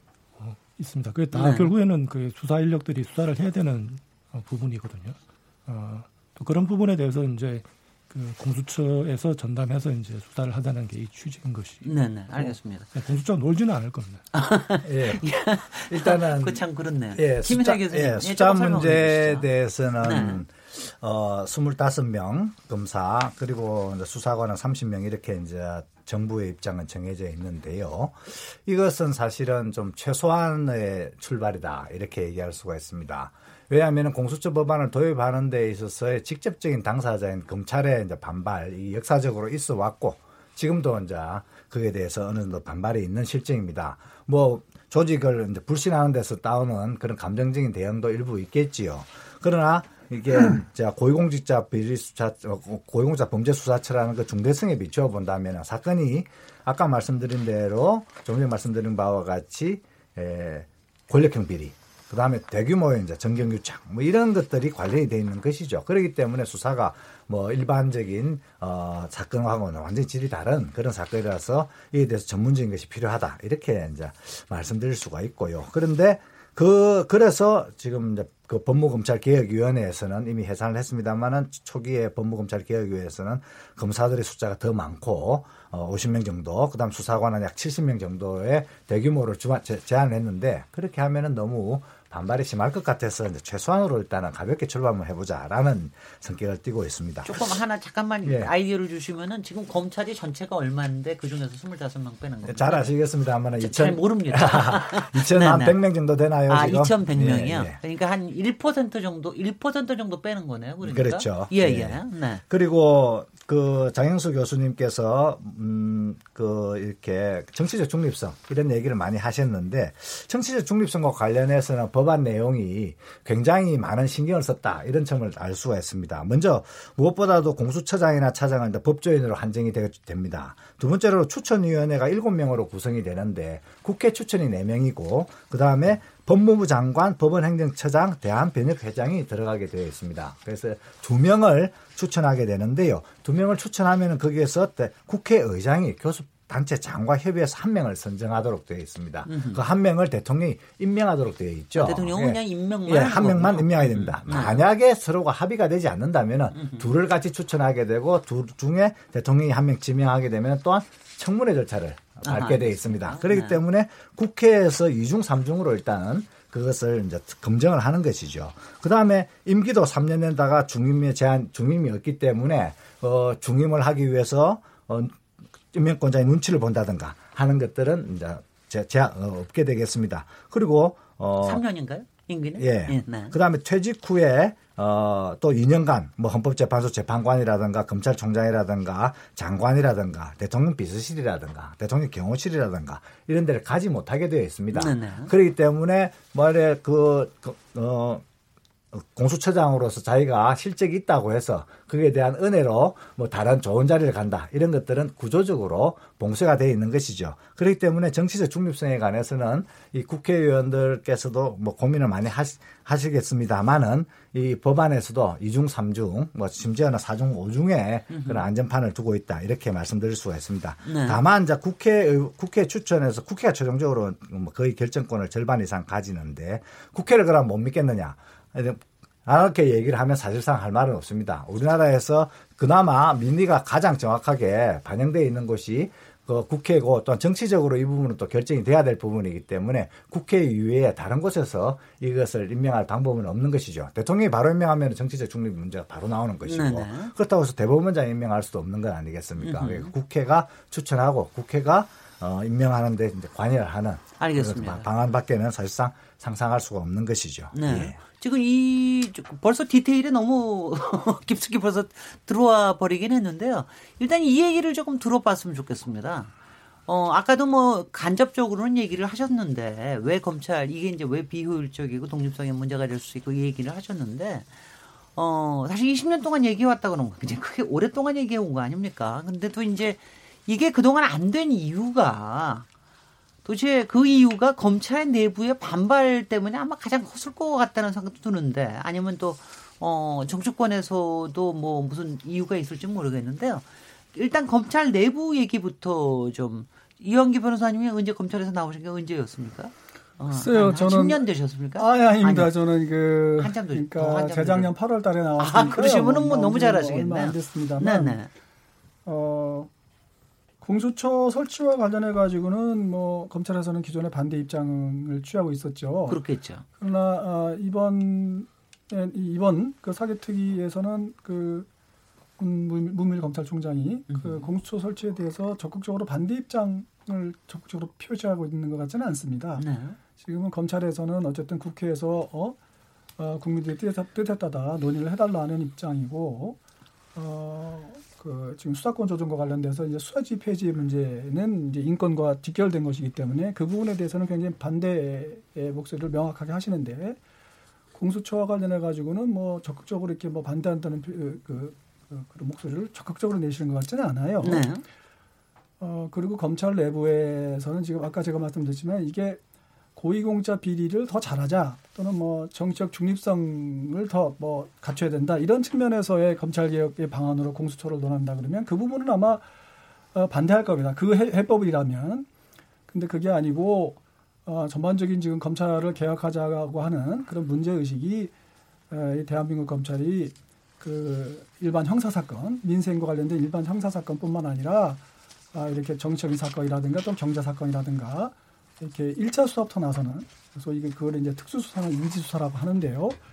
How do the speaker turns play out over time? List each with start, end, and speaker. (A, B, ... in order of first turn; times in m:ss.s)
0:00.4-0:14.2 A
0:01.3-0:01.7 B
0:11.8-0:12.9 B
0:14.3-0:19.4 B
0:14.8-0:15.2 C
0:15.9-0:16.6 C
0:17.1-1:37.5 C
0:20.0-0:20.4 B
1:37.2-1:42.9 B
1:38.2-1:38.5 C
1:42.4-1:47.8 C
1:43.6-1:45.8 B
1:46.5-1:52.4 B
1:50.8-2:55.2 C
2:29.2-2:29.6 B
2:31.7-2:34.6 B
2:36.5-2:36.9 B
2:42.2-2:43.6 B
2:55.7-3:01.6 C
3:01.4-3:03.3 B
3:02.6-3:18.2 C
3:14.7-3:15.3 B
3:18.9-4:18.0 C
3:38.1-3:38.4 B
3:40.8-3:41.2 B
4:06.4-4:07.1 B
4:09.4-4:09.9 B
4:14.2-4:14.9 B
4:17.5-4:26.3 B
4:26.9-4:34.6 B
4:35.2-4:42.7 B
4:43.4-5:02.5 B
5:00.3-5:01.2 D
5:01.8-5:08.2 D
5:03.4-5:04.7 B
5:05.4-5:08.3 B
5:09.0-5:09.7 D
5:10.6-5:16.2 D
5:16.1-5:16.6 B
5:16.8-5:21.7 D
5:22.4-5:29.6 D
5:24.1-5:24.5 B
5:29.6-5:30.0 B
5:30.2-5:32.6 D
5:33.2-5:36.6 D
5:37.1-5:47.2 D
5:47.9-5:54.6 D
5:54.4-5:54.8 B
5:55.8-5:59.4 D
6:00.0-6:09.4 D
6:10.1-6:12.3 D
6:12.9-6:18.3 D
6:18.9-6:25.0 D
6:25.5-6:33.2 D